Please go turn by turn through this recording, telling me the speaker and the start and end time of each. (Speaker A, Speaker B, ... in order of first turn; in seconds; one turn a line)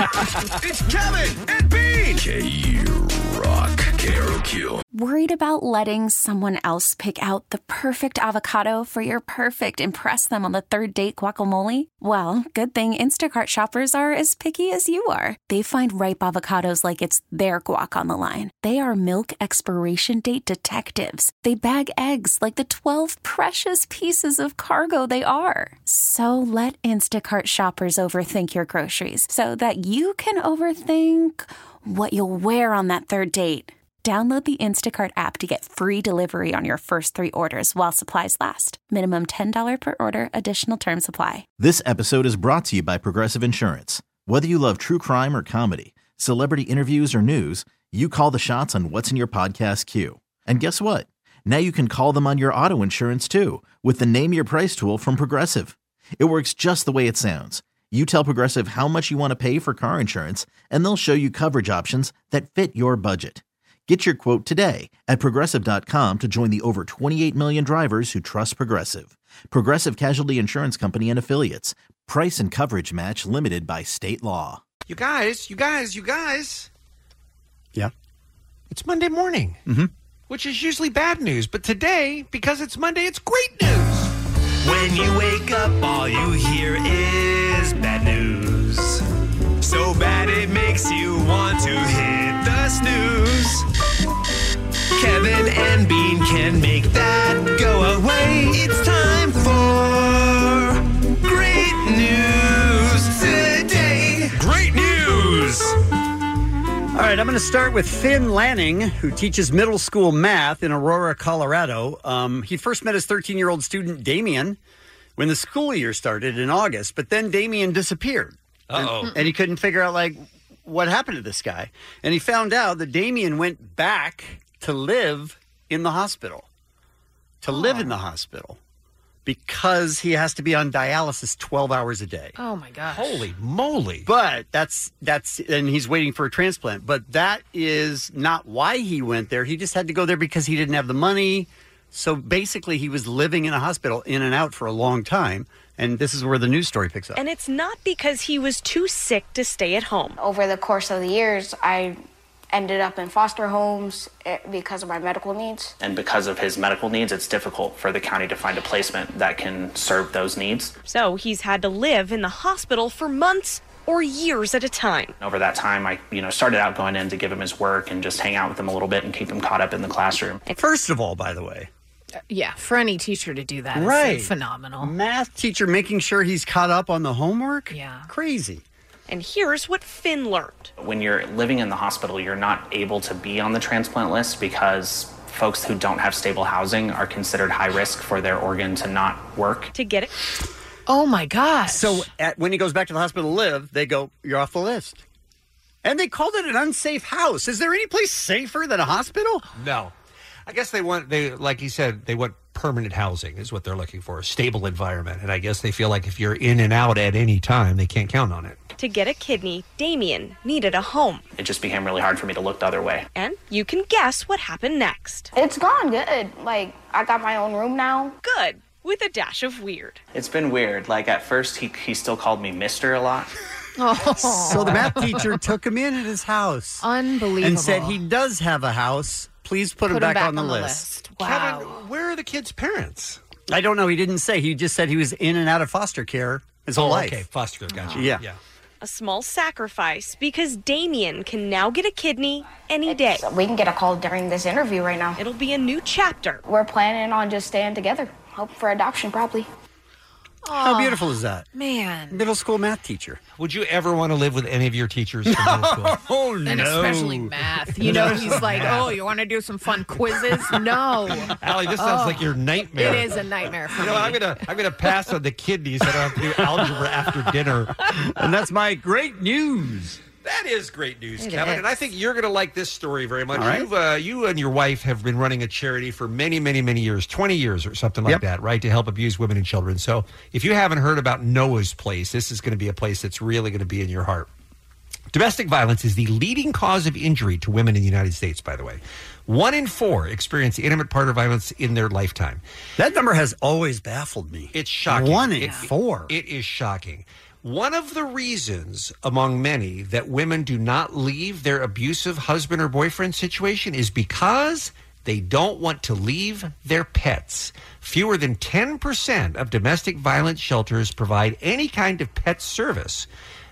Speaker A: 0.7-1.5
Speaker B: 1.7-4.8
Speaker C: 4.9-41.5
Speaker D: 41.6-74.6
Speaker E: 74.9-76.7
Speaker E: 78.7-79.6
Speaker E: 80.3-84.1
Speaker A: 84.6-89.0
Speaker A: 89.6-93.6
Speaker A: 95.0-105.7
Speaker F: 106.9-114.6
Speaker F: 115.2-126.5
Speaker E: 118.7-119.2
Speaker F: 127.4-128.6
Speaker G: 127.5-127.9
Speaker F: 129.2-132.3
Speaker G: 132.4-133.2
Speaker E: 132.9-134.1
Speaker F: 134.0-147.2
Speaker H: 147.2-150.2
Speaker I: 150.2-152.0
Speaker I: 152.5-155.7
Speaker J: 155.8-160.7
Speaker H: 160.8-165.2
Speaker J: 165.2-170.4
Speaker F: 170.5-171.7
Speaker G: 172.3-174.9
Speaker F: 173.7-178.6
Speaker G: 177.7-178.1
Speaker H: 179.1-180.7
Speaker J: 180.8-189.7
Speaker H: 189.7-190.1
Speaker G: 190.9-192.1
Speaker F: 191.7-195.0
Speaker F: 195.8-199.4
Speaker E: 199.6-199.9
Speaker E: 200.5-208.6
Speaker H: 208.8-211.2
Speaker J: 211.4-213.1
Speaker H: 213.1-215.3
Speaker I: 215.3-218.1
Speaker H: 218.2-220.0
Speaker J: 220.1-223.3
Speaker G: 223.8-225.4
Speaker F: 224.3-226.9
Speaker G: 226.8-228.0
Speaker F: 227.4-230.8
Speaker G: 229.9-231.8
Speaker E: 231.2-233.2
Speaker F: 233.5-237.2
Speaker E: 236.8-238.4
Speaker G: 237.7-238.0
Speaker F: 237.9-238.2
Speaker H: 238.8-243.2
Speaker I: 242.9-245.2
Speaker H: 245.2-246.4
Speaker I: 246.4-249.5
Speaker G: 250.4-252.2
Speaker F: 250.5-251.4
Speaker F: 252.1-253.2
Speaker E: 253.4-256.0
Speaker F: 255.2-258.9
Speaker G: 256.4-264.2
Speaker E: 257.9-258.8
Speaker E: 261.4-263.1
Speaker E: 263.7-267.8
Speaker F: 267.9-270.0
Speaker E: 270.2-284.3
Speaker G: 271.2-271.6
Speaker F: 273.3-273.7
Speaker E: 285.1-292.4
Speaker F: 292.8-296.1
Speaker E: 294.5-313.1